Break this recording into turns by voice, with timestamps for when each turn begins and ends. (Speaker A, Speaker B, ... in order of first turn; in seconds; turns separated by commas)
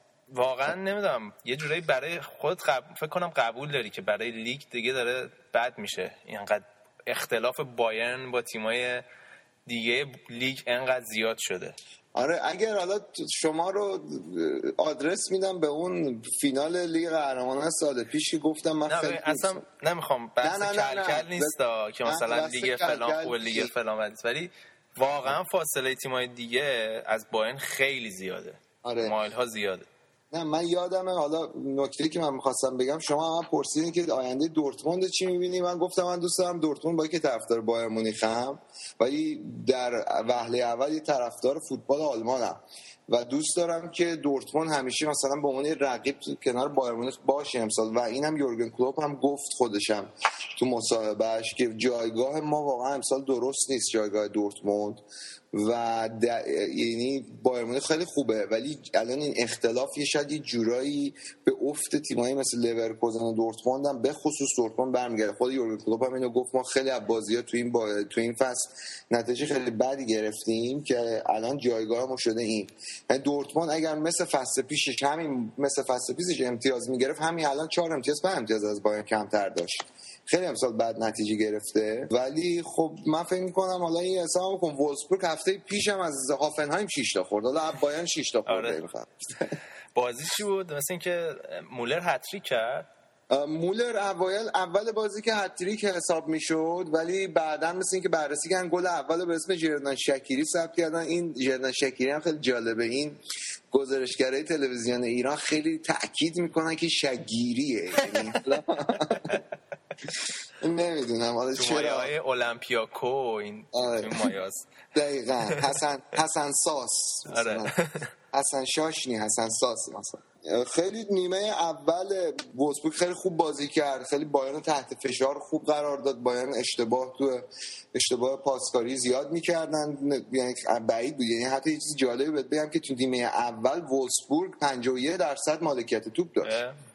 Speaker A: 0.3-9.0, Speaker A: 9.7-11.8, Speaker B: 12.2-19.6, Speaker A: 18.9-29.9, Speaker B: 20.4-23.7, Speaker B: 28.8-29.1, Speaker B: 30.3-55.0, Speaker B: 55.5-89.4, Speaker A: 88.5-88.8, Speaker A: 90.0-92.9, Speaker B: 93.3-103.2, Speaker B: 103.7-109.4, Speaker B: 110.6-112.1, Speaker A: 111.6-114.7, Speaker B: 113.8-114.3, Speaker B: 114.9-117.7, Speaker A: 117.3-118.1, Speaker B: 118.3-136.6, Speaker A: 136.4-136.8